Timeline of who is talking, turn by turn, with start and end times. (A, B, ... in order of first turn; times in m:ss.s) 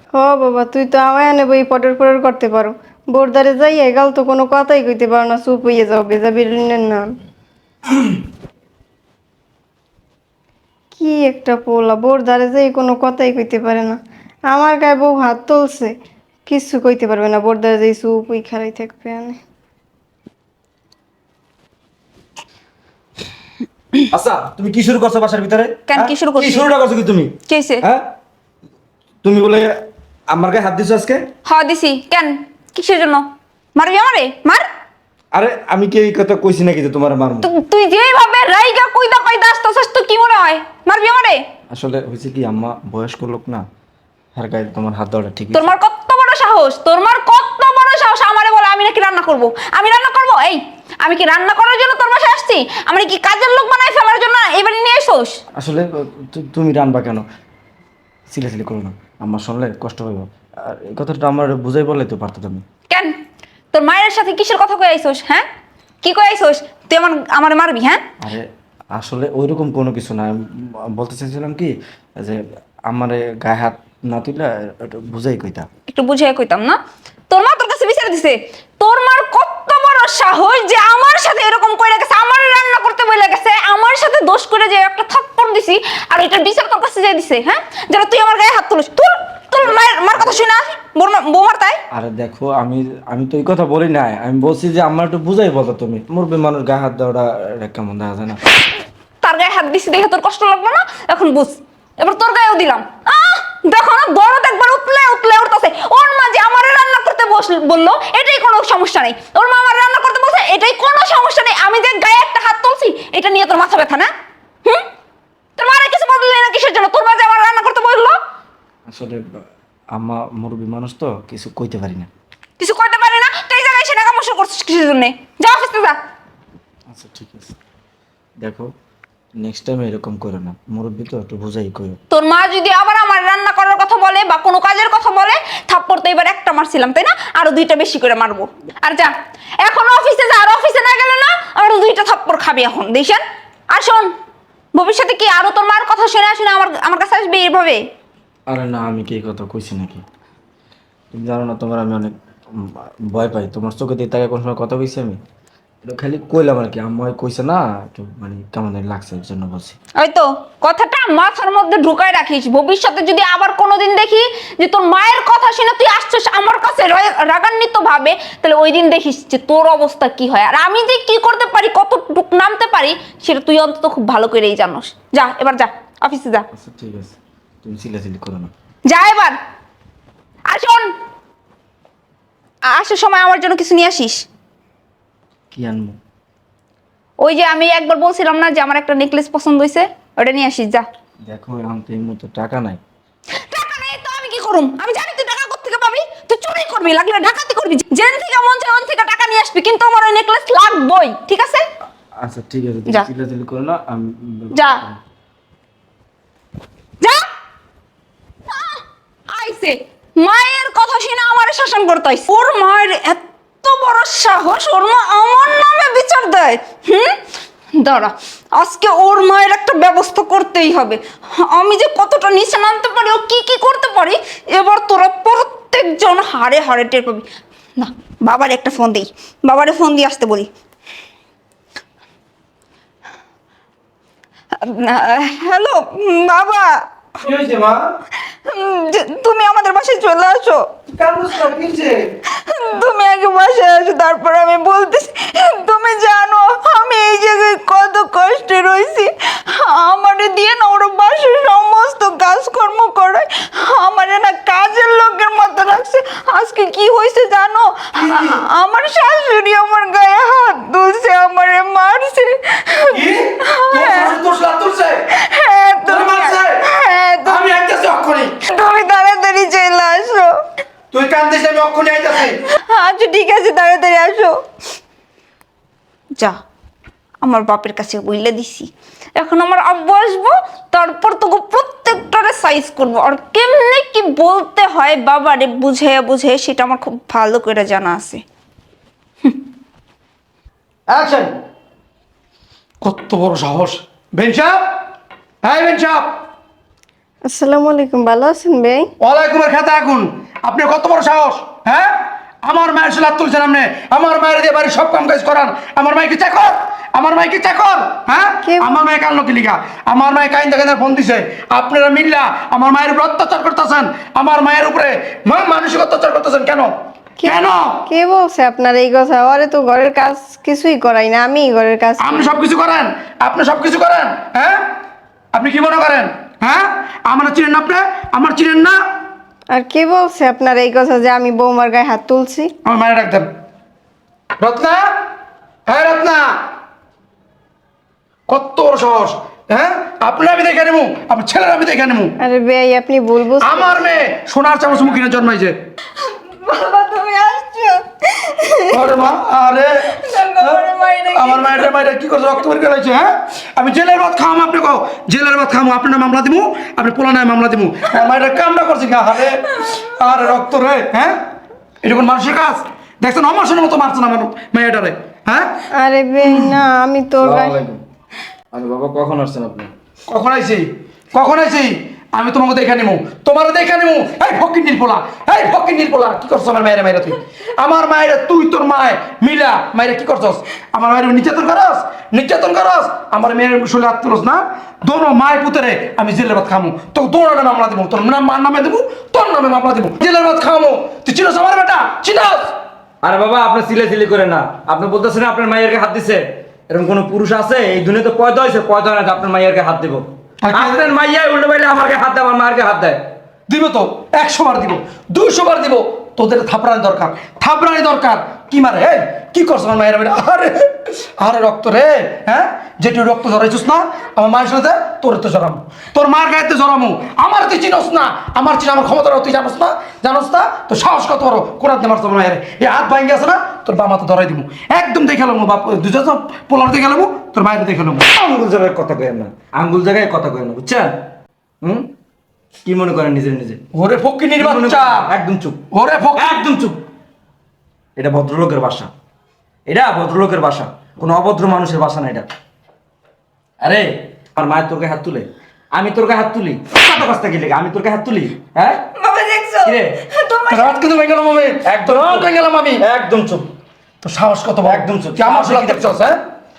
0:00.2-0:07.1 A
0:11.0-0:14.0 A
0:14.5-0:15.9 A
0:16.5-0:19.4 A
0:24.1-0:28.1 B
0:25.9-0:26.7 C
0:27.5-0:27.8 C
0:29.2-0:31.3 B
0:31.5-0:34.6 C
0:35.3-0:37.5 B
0:37.4-0:41.4 C
0:41.7-0:43.6 B
0:44.3-0:45.7 B
0:45.5-0:55.4 C
0:55.6-0:57.2 B
0:58.3-1:02.6 B
1:02.9-1:03.2 C
1:03.7-1:05.5 C
1:06.0-1:08.0 C
1:08.2-1:15.7 B
1:15.9-1:16.8 C
1:17.3-1:31.8 C
1:31.9-1:38.4 B
1:39.2-1:54.1 C
1:55.6-1:58.2 C
1:58.9-2:02.1 B
2:02.6-2:06.0 C
2:06.9-2:07.6 B
2:08.4-2:08.7 B
2:09.4-2:12.0 B
2:12.1-2:19.1 C
2:19.6-2:24.1 C
2:24.7-2:27.8 C
2:28.5-2:30.0 B
2:31.1-2:35.2 B
2:35.8-2:39.8 B
2:40.0-2:56.5 C
2:56.5-2:58.5 B
2:58.9-2:59.4 C
3:00.5-3:00.9 C
3:02.7-3:04.2 C
3:05.5-3:06.0 B
3:07.2-3:10.8 C
3:11.2-3:12.8 B
3:13.4-3:21.6 C
3:22.2-3:25.0 B
3:24.5-3:24.8 C
3:28.5-3:37.2 C
3:37.8-3:50.5 C
3:54.6-3:56.8 C
3:57.2-3:57.8 D
3:58.5-4:00.7 C
4:00.9-4:02.1 D
4:02.3-4:24.2 C
4:18.0-4:18.4 D
4:22.9-4:25.0 D
4:25.1-4:27.4 C
4:25.9-4:26.6 D
4:27.2-4:28.4 D
4:28.4-4:30.4 C
4:30.9-4:32.4 D
4:32.4-4:34.4 C
4:37.2-4:48.2 C
4:50.9-4:51.3 D
4:52.8-4:54.6 D
4:55.4-4:56.1 D
4:57.3-4:58.9 A
4:59.0-5:16.7 D
5:08.4-5:08.7 A
5:17.2-5:22.4 A
5:17.2-5:17.8 D
5:22.0-5:24.6 D
5:25.3-5:28.8 D
5:29.5-5:32.5 A
5:32.6-5:33.3 D
5:34.4-5:34.9 D
5:35.7-5:36.3 D
5:38.3-5:42.1 D
5:42.2-5:43.8 A
5:43.4-5:45.6 D
5:46.0-5:48.9 C
5:48.7-6:01.2 D
5:49.9-5:51.7 C
6:01.8-6:05.5 D
6:05.8-6:07.6 A
6:07.2-6:07.8 B
6:08.5-6:09.7 B
6:10.1-6:32.5 D
6:33.0-6:43.0 B
6:40.4-6:40.8 D
6:43.5-7:08.1 D
7:08.1-7:11.0 B
7:11.6-7:11.9 B
7:12.6-7:13.6 B
7:13.7-7:15.1 D
7:14.4-7:15.6 B
7:15.7-7:16.5 D
7:16.2-7:16.8 B
7:18.0-7:18.9 B
7:19.7-7:22.3 B
7:23.6-7:28.8 B
7:29.0-7:30.8 C
7:29.6-7:30.0 B
7:30.5-7:32.8 D
7:31.6-7:32.3 B
7:32.8-7:33.5 B
7:34.0-7:36.2 D
7:34.6-7:35.9 B